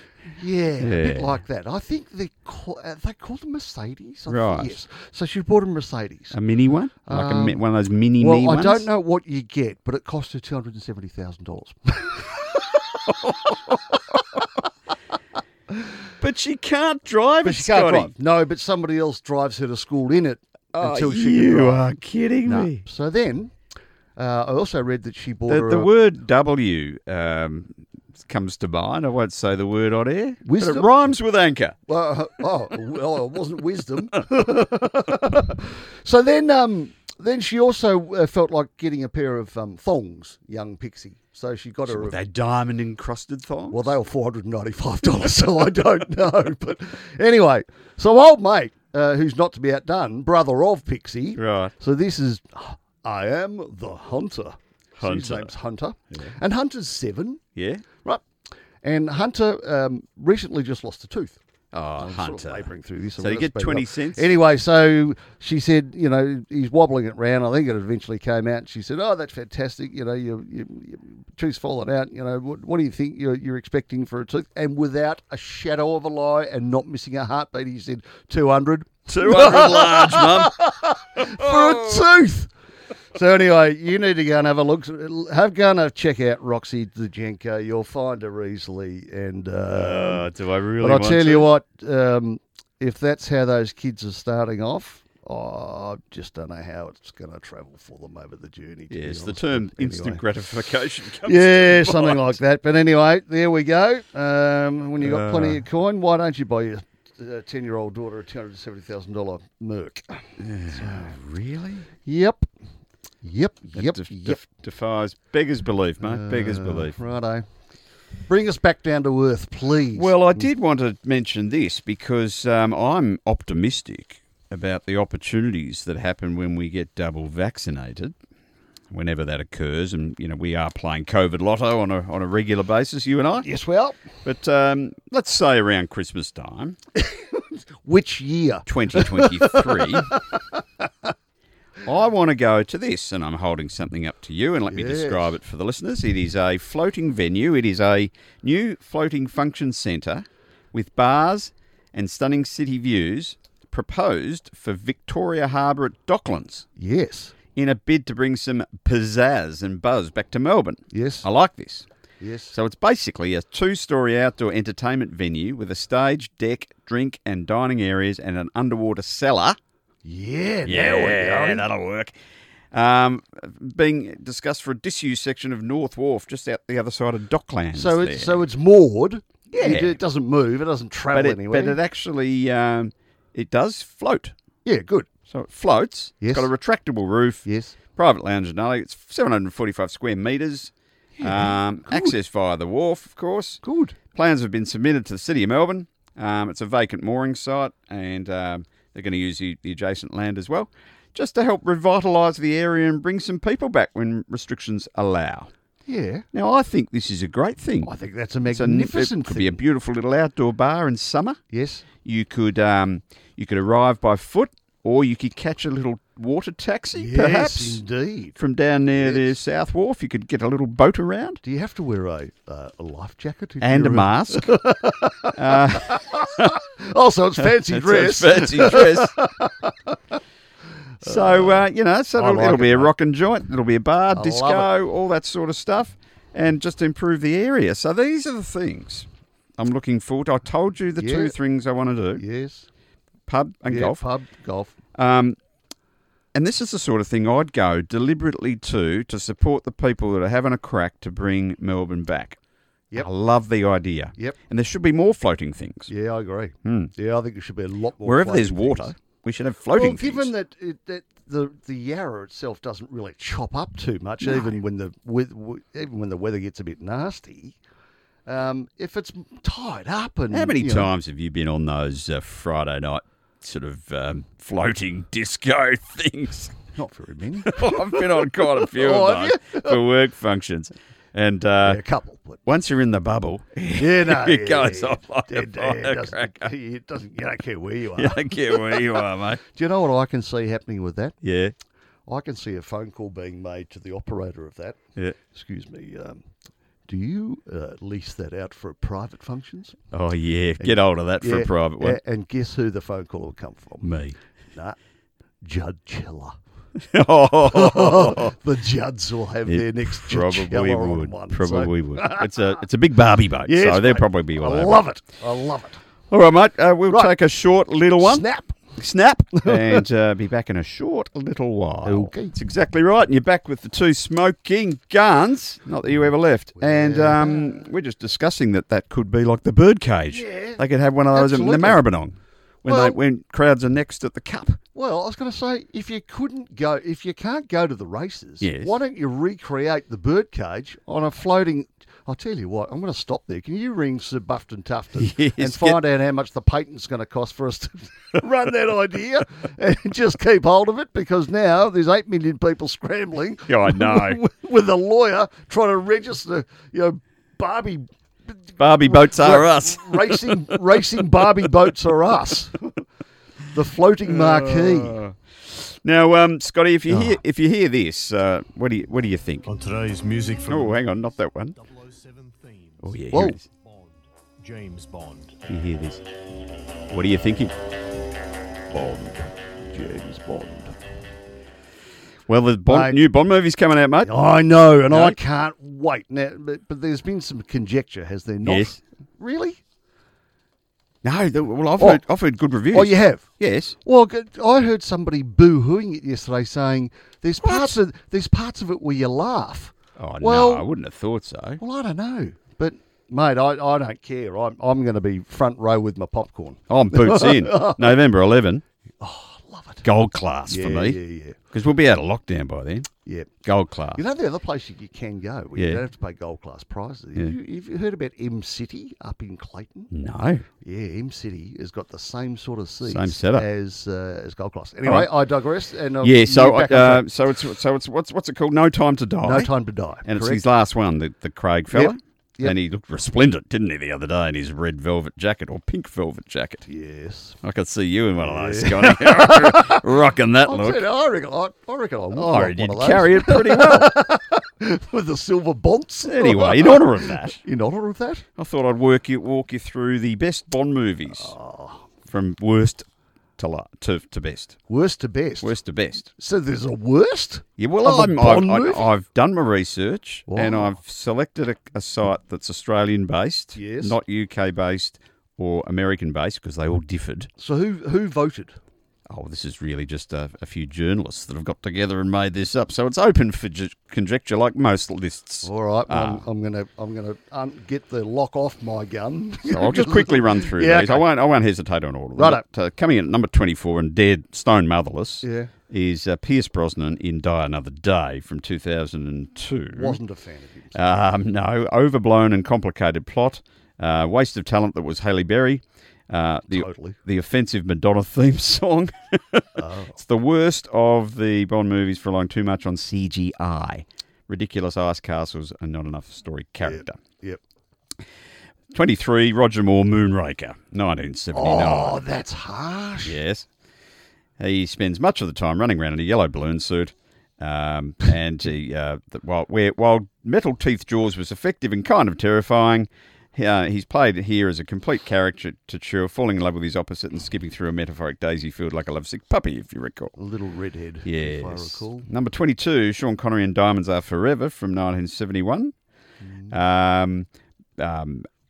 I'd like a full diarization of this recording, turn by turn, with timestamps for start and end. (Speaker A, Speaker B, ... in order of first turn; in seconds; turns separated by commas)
Speaker A: 0.3-6.4, Speaker B: 0.8-1.4, Speaker B: 4.3-4.8, Speaker B: 6.3-8.9, Speaker A: 7.0-7.6, Speaker A: 8.2-13.8, Speaker B: 16.2-18.1, Speaker A: 17.4-21.9, Speaker B: 20.7-22.8, Speaker A: 22.4-23.5, Speaker A: 24.1-25.9, Speaker B: 25.5-31.8, Speaker A: 30.4-30.9, Speaker A: 31.9-42.2, Speaker B: 41.9-44.0, Speaker A: 43.7-57.4, Speaker B: 51.4-51.7, Speaker B: 55.0-55.5, Speaker B: 57.5-57.8, Speaker A: 58.8-61.4, Speaker B: 61.7-64.3, Speaker A: 62.0-82.5, Speaker B: 79.1-82.0, Speaker A: 83.1-90.2, Speaker B: 89.7-91.5, Speaker A: 90.8-100.2, Speaker B: 98.9-102.4, Speaker A: 101.2-111.1, Speaker B: 105.0-105.6, Speaker B: 110.4-111.9, Speaker A: 112.0-112.5, Speaker A: 113.2-114.4, Speaker B: 113.7-117.0, Speaker A: 116.0-117.5, Speaker A: 118.3-120.4, Speaker B: 119.9-128.1, Speaker B: 128.9-133.5, Speaker A: 133.4-134.0, Speaker B: 134.2-136.8, Speaker A: 136.9-141.1, Speaker B: 138.7-140.1, Speaker B: 141.8-156.7, Speaker A: 144.7-145.3, Speaker A: 156.8-157.3, Speaker B: 157.6-161.8, Speaker A: 160.9-161.3, Speaker A: 162.2-162.5, Speaker B: 162.5-169.6, Speaker A: 170.0-171.7, Speaker B: 170.7-172.1, Speaker B: 172.7-178.4, Speaker A: 177.7-181.8, Speaker B: 179.5-180.0, Speaker B: 181.1-184.3, Speaker A: 184.6-185.1, Speaker B: 185.3-193.6, Speaker A: 186.2-186.5, Speaker A: 187.4-187.8, Speaker A: 191.2-192.1, Speaker A: 193.6-194.0, Speaker B: 194.1-205.5, Speaker A: 205.8-206.2, Speaker B: 206.3-207.9, Speaker A: 207.8-209.6, Speaker B: 208.5-211.4, Speaker A: 211.5-211.8, Speaker B: 212.0-217.8, Speaker A: 216.9-218.4, Speaker B: 218.4-221.4, Speaker A: 219.0-219.3, Speaker A: 221.4-230.2, Speaker B: 223.6-224.6, Speaker B: 225.3-226.6, Speaker B: 227.4-229.2, Speaker A: 231.0-232.9, Speaker B: 231.0-242.2, Speaker A: 234.1-234.7, Speaker A: 241.0-241.3, Speaker A: 242.2-242.7, Speaker B: 243.3-244.0, Speaker A: 243.7-244.8, Speaker B: 244.9-245.4, Speaker B: 246.3-252.4, Speaker B: 252.9-255.9, Speaker A: 255.9-258.9, Speaker B: 256.6-256.9, Speaker B: 258.0-260.3, Speaker A: 259.7-267.6, Speaker B: 264.2-264.5, Speaker A: 268.2-270.9, Speaker B: 270.3-276.5, Speaker A: 276.7-279.8, Speaker B: 277.4-281.8, Speaker A: 281.6-282.4, Speaker B: 282.4-286.5, Speaker A: 283.7-291.2, Speaker B: 287.9-289.4, Speaker B: 291.2-291.5, Speaker A: 292.1-296.2, Speaker A: 296.9-299.8, Speaker B: 299.9-302.0, Speaker A: 300.6-303.9, Speaker B: 303.8-304.1, Speaker A: 305.4-306.4, Speaker B: 306.8-308.3, Speaker A: 307.4-312.4, Speaker B: 309.5-314.8, Speaker A: 313.4-315.8, Speaker B: 316.1-318.2, Speaker A: 318.0-318.6, Speaker B: 318.8-334.6, Speaker A: 319.4-319.8, Speaker A: 321.8-322.3, Speaker A: 326.6-327.6, Speaker A: 330.1-331.8, Speaker A: 332.6-333.0, Speaker A: 334.7-362.7, Speaker B: 338.4-338.7, Speaker B: 345.0-345.8, Speaker B: 353.5-354.2, Speaker B: 358.6-360.6, Speaker A: 363.5-365.0, Speaker B: 364.0-369.5, Speaker A: 366.9-367.2, Speaker C: 369.4-370.9, Speaker B: 370.5-371.6, Speaker C: 371.5-375.4, Speaker B: 372.8-373.4, Speaker A: 373.1-373.4, Speaker B: 375.5-376.0, Speaker B: 376.9-377.5, Speaker A: 378.7-380.8, Speaker B: 382.3-384.1, Speaker A: 382.7-383.0, Speaker A: 384.0-389.6, Speaker B: 384.9-385.2, Speaker B: 388.4-388.8, Speaker B: 391.0-393.8, Speaker A: 391.8-392.0, Speaker A: 392.7-393.3, Speaker A: 393.8-400.7, Speaker B: 397.4-397.7, Speaker B: 400.0-401.6, Speaker A: 401.6-407.9, Speaker B: 406.7-408.6, Speaker A: 409.0-409.9, Speaker B: 409.8-411.0, Speaker A: 410.5-411.4, Speaker B: 411.5-412.9, Speaker A: 413.0-413.3, Speaker B: 413.4-414.0, Speaker A: 413.9-419.9, Speaker B: 415.6-415.8, Speaker B: 419.9-420.4, Speaker A: 420.6-427.1, Speaker B: 422.8-423.4, Speaker B: 424.8-425.1, Speaker B: 426.0-429.5, Speaker A: 429.2-430.4, Speaker B: 430.0-436.6, Speaker A: 431.7-432.5, Speaker A: 436.6-437.4, Speaker B: 437.4-440.8, Speaker A: 438.2-448.2, Speaker B: 442.1-443.9, Speaker B: 446.0-447.4, Speaker B: 448.4-451.3, Speaker A: 451.1-451.9, Speaker B: 452.1-452.9, Speaker B: 453.4-454.6, Speaker A: 454.7-455.6, Speaker B: 455.4-456.1, Speaker A: 456.1-458.9, Speaker B: 457.6-467.3, Speaker A: 460.3-460.8, Speaker A: 463.5-464.0, Speaker A: 467.4-468.6, Speaker B: 469.1-476.2, Speaker A: 475.4-481.0, Speaker B: 479.5-490.0, Speaker A: 482.1-482.4, Speaker A: 485.2-485.5, Speaker A: 489.7-490.8, Speaker B: 490.7-507.0, Speaker A: 496.5-497.0, Speaker A: 499.6-500.0, Speaker A: 506.6-507.4, Speaker B: 508.7-512.0, Speaker A: 511.3-513.2, Speaker B: 513.0-513.5, Speaker B: 514.4-530.1, Speaker A: 530.2-532.1, Speaker B: 531.0-535.7, Speaker A: 536.2-536.5, Speaker B: 536.5-538.3